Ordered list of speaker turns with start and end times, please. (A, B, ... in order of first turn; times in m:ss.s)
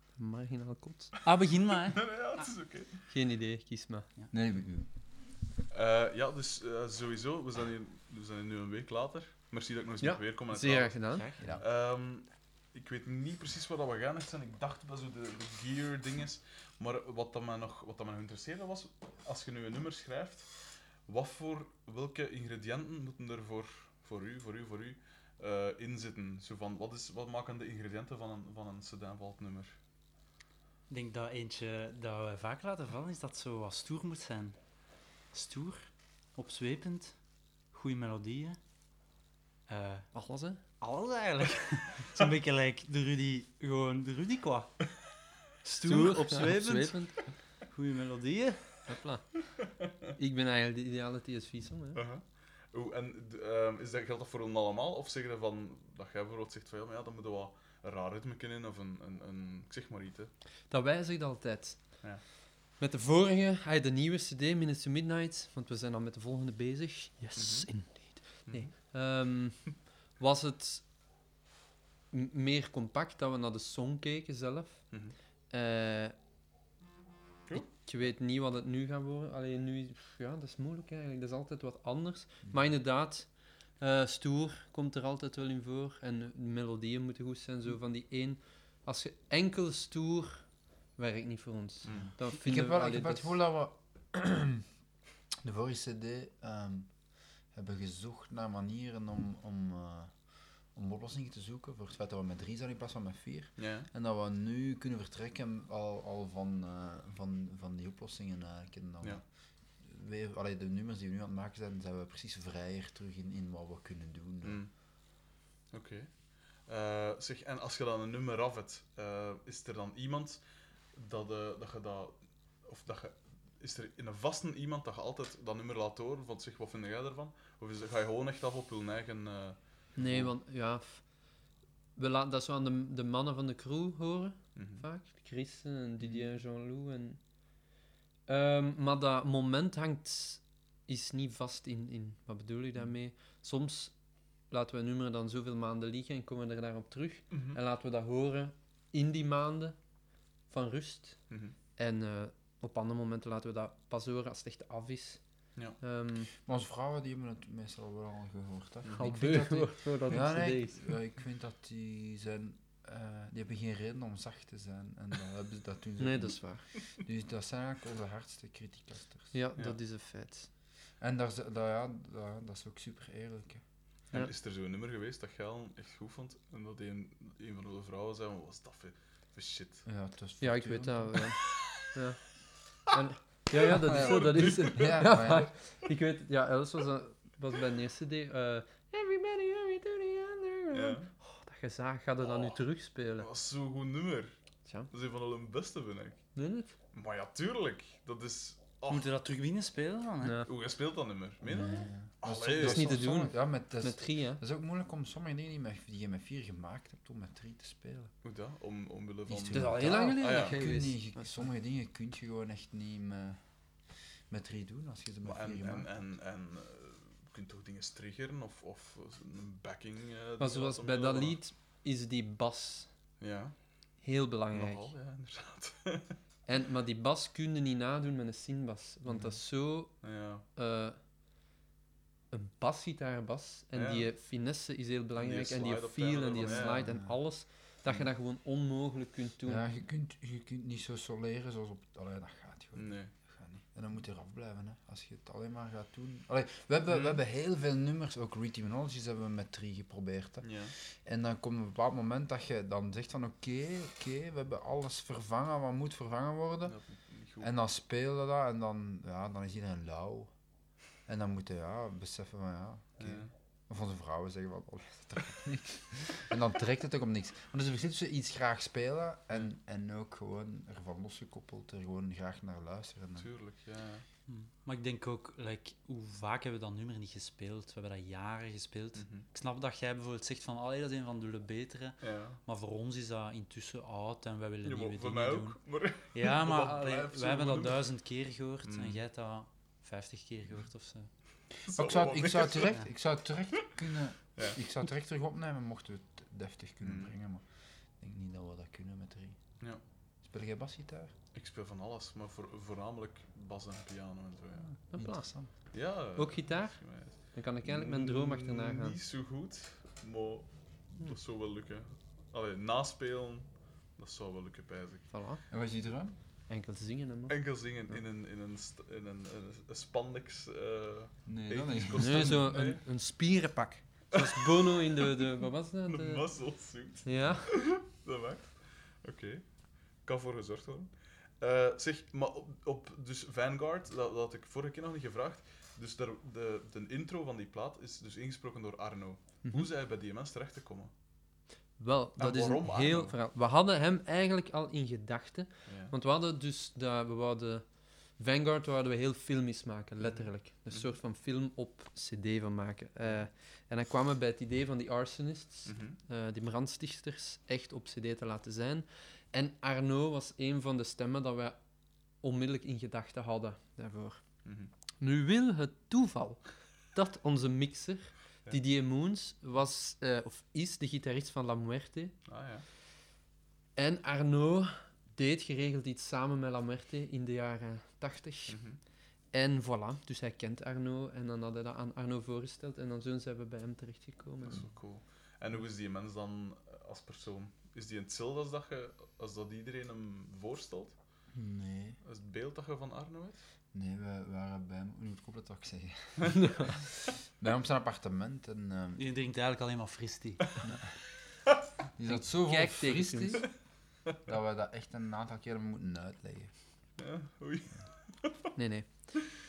0:00.2-0:01.1 A
0:01.2-0:02.1 B
0:01.9-0:03.0 C
0:03.1-0:04.1 A
0:04.3-0:04.9 D
0:05.7-0:20.5 C
0:10.0-0:11.4 A
0:11.4-0:11.6 D
0:21.0-0:29.7 C
0:30.9-0:34.6 B
0:35.3-0:35.8 B
0:36.4-0:37.2 B
0:37.7-0:38.6 B
0:39.7-0:40.1 B
0:40.1-0:40.6 A
0:40.8-0:44.7 B
0:45.6-0:47.0 B
0:45.7-0:47.1 A
0:47.6-0:48.6 B
0:48.9-0:49.3 A
0:50.2-0:52.0 A
0:51.9-1:00.3 C
1:00.7-1:02.0 A
1:02.8-1:10.8 A
1:07.4-1:07.7 C
1:08.4-1:08.7 C
1:12.1-1:14.8 A
1:15.5-1:16.1 A
1:17.5-1:33.3 A
1:31.8-1:32.1 C
1:32.3-1:34.6 D
1:35.4-1:36.9 D
1:37.5-1:40.1 D
1:40.7-1:49.2 D
1:43.6-1:43.9 C
1:49.8-1:54.6 D
1:54.4-1:54.7 C
1:55.7-2:00.4 C
2:00.9-2:10.3 C
2:10.0-2:11.0 A
2:12.0-2:17.2 A
2:14.6-2:14.8 C
2:18.3-2:23.9 A
2:24.5-2:29.8 A
2:27.3-2:27.6 C
2:30.5-2:31.2 A
2:31.3-2:31.5 C
2:31.8-2:35.2 A
2:35.8-2:36.3 A
2:36.4-2:49.3 D
2:38.9-2:40.9 A
2:46.0-2:46.7 A
2:49.3-2:50.5 A
2:51.0-2:53.6 D
2:54.1-2:59.8 C
2:59.8-3:01.2 D
3:00.4-3:02.2 A
3:02.9-3:13.3 A
3:03.7-3:05.0 C
3:03.9-3:05.5 D
3:10.7-3:11.1 C
3:12.2-3:12.6 C
3:13.2-3:14.3 C
3:14.6-3:14.9 A
3:14.9-3:16.2 C
3:16.3-3:16.7 A
3:16.9-3:19.1 C
3:18.9-3:20.4 B
3:20.2-3:20.5 A
3:20.4-3:23.1 C
3:21.4-3:28.1 D
3:22.6-3:24.4 A
3:28.2-3:30.6 C
3:29.3-3:33.4 D
3:29.5-3:31.5 A
3:34.3-3:35.9 D
3:35.2-3:41.4 C
3:40.4-3:42.9 A
3:43.2-3:43.5 C
3:44.0-3:44.9 A
3:44.5-3:46.2 C
3:46.5-3:50.0 A
3:50.0-3:50.4 C
3:50.5-3:51.0 A
3:52.3-3:59.6 A
3:53.7-3:54.1 C
3:55.2-3:56.8 C
3:56.4-3:57.2 D
3:59.4-4:10.5 D
4:02.7-4:03.1 C
4:06.9-4:07.2 C
4:10.4-4:10.7 C
4:11.0-4:16.8 D
4:16.7-4:17.5 C
4:17.4-4:20.3 D
4:21.0-4:33.3 D
4:23.0-4:23.3 C
4:33.2-4:34.0 C
4:34.3-4:45.6 B
4:39.0-4:39.2 C
4:42.0-4:42.4 C
4:44.6-4:47.8 C
4:46.1-4:51.1 B
4:48.6-4:49.0 C
4:51.7-4:52.7 C
4:51.7-4:57.4 D
4:56.8-4:57.1 C
4:58.0-4:59.4 D
5:00.2-5:01.1 D
5:01.3-5:04.8 C
5:04.9-5:05.3 A
5:05.0-5:05.5 D
5:05.7-5:15.1 C
5:06.2-5:09.0 A
5:15.1-5:15.4 A
5:15.5-5:16.2 D
5:16.5-5:17.4 A
5:17.3-5:22.8 C
5:21.2-5:22.4 D
5:22.0-5:26.2 A
5:24.2-5:25.1 C
5:25.8-5:29.4 C
5:27.0-5:27.5 A
5:30.0-5:40.9 C
5:39.4-5:39.7 A
5:41.8-5:47.6 A
5:42.2-5:43.1 C
5:45.6-5:45.9 C
5:48.2-6:01.6 A
5:50.1-5:50.9 C
5:55.6-5:56.0 C
6:02.2-6:04.2 A
6:04.4-6:04.7 C
6:05.0-6:06.4 A
6:06.9-6:12.1 A
6:12.2-6:12.6 C
6:13.8-6:18.6 A
6:18.5-6:18.8 C
6:19.3-6:24.7 A
6:24.4-6:30.9 C
6:31.3-6:32.0 D
6:32.0-6:33.4 C
6:33.7-6:39.0 D
6:36.3-6:36.8 A
6:39.0-6:40.6 B
6:42.0-6:43.5 D
6:42.1-6:43.4 A
6:44.2-6:46.5 D
6:47.0-6:48.4 C
6:48.6-6:49.0 A